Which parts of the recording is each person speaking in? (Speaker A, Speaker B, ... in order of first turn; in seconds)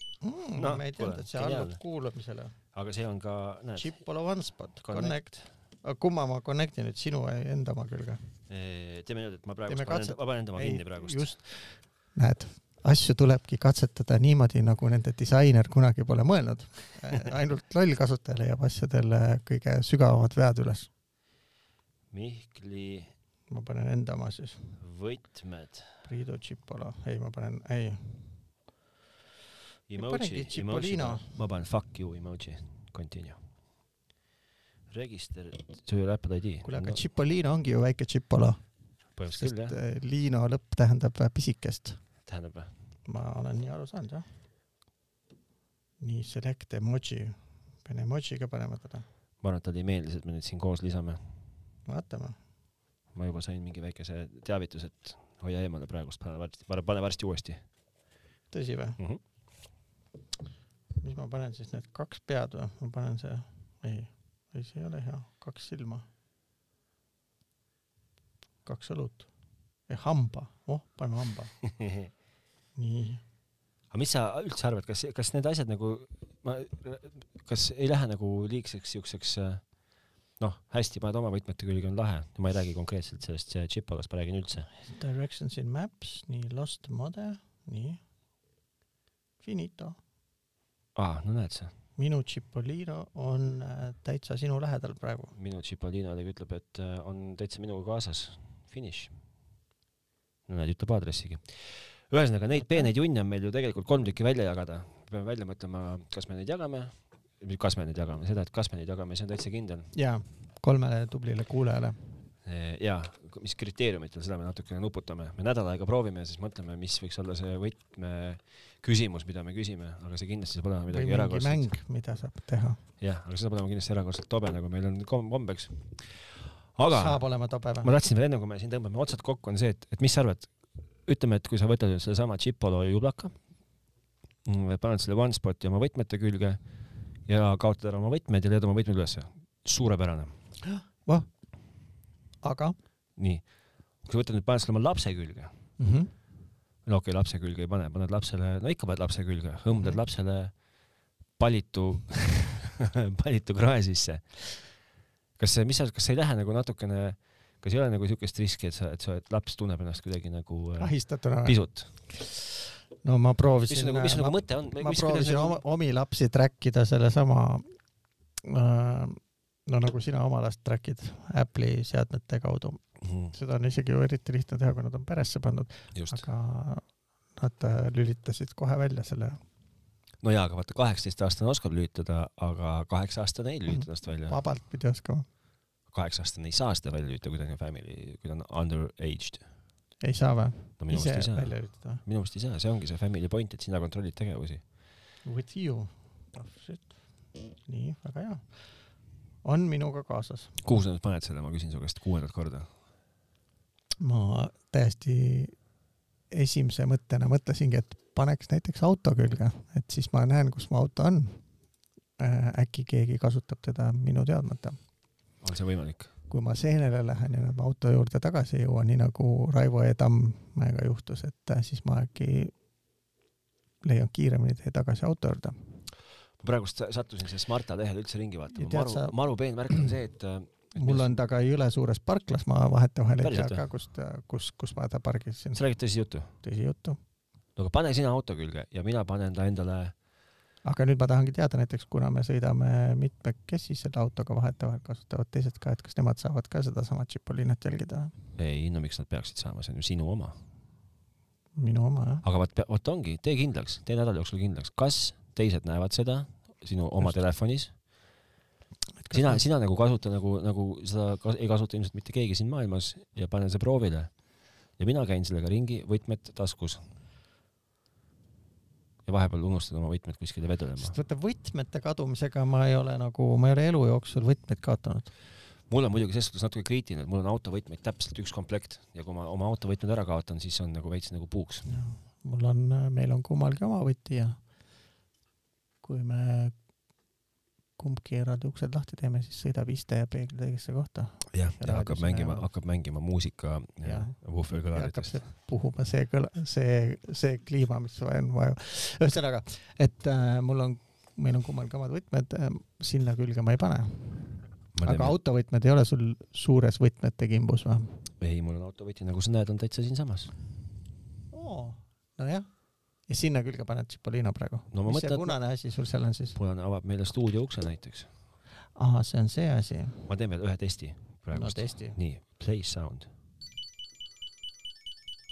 Speaker A: 0.2-2.5, 3.8-8.2, 9.7-20.9, 23.5-24.7, 26.1-28.3, 30.0-31.4, 36.7-38.6, 39.3-42.0, 43.1-44.2, 46.0-49.0, 51.9-52.4, 58.5-59.0, 61.0-66.1, 68.7-69.3, 69.9-71.5, 72.8-73.2, 84.8-88.0, 89.4-90.0, 92.0-95.3, 102.6-102.9, 109.9-112.0, 120.9-122.8, 126.9-127.9, 140.6-141.3, 142.4-142.8, 145.8-146.1, 160.8-161.6, 163.0-167.7, 168.4-179.4, 183.7-185.3, 190.0-192.0, 195.2-198.4, 199.4-200.6, 204.0-205.6, 206.3-211.4, 212.2-214.8, 216.3-222.5, 223.8-225.6, 228.5-229.1, 230.8-235.6, 236.4-237.0, 240.7-248.1, 251.6-252.2, 259.0-259.4, 270.8-275.1, 281.7-284.4, 285.8-286.5, 287.8-292.5, 293.8-308.0, 311.3-312.5, 313.1-316.4, 318.8-320.1, 321.3-322.0
Speaker B: 0.6-1.8, 2.7-3.9, 4.8-5.4, 8.5-11.4, 22.1-23.1, 24.8-25.9, 29.9-33.4, 34.9-37.0, 39.2-39.8, 42.2-42.7, 49.4-51.3, 53.1-57.6, 71.8-72.1, 73.9-79.6, 80.4-84.7, 91.0-91.7, 95.3-99.1, 100.5-109.9, 112.5-121.7, 123.0-127.2, 127.8-130.5, 131.1-133.3, 134.4-136.6, 137.3-140.3, 143.2-143.4, 144.0-145.5, 146.8-150.5, 151.4-154.4, 155.4-160.9, 161.4-161.9, 163.7-165.6, 173.0-173.3, 175.9-176.3, 180.2-184.4, 185.9-189.4, 190.8-194.6, 200.6-202.7, 215.4-216.1, 226.4-231.2, 233.2-233.7, 235.5-236.3, 237.6-239.9, 248.4-250.4, 252.2-257.7, 259.1-264.1, 264.8-266.8, 269.1-271.0, 275.7-281.7, 291.3-295.2, 304.7-305.1, 308.2-310.3, 314.7-315.4, 316.4-318.1, 320.1-323.1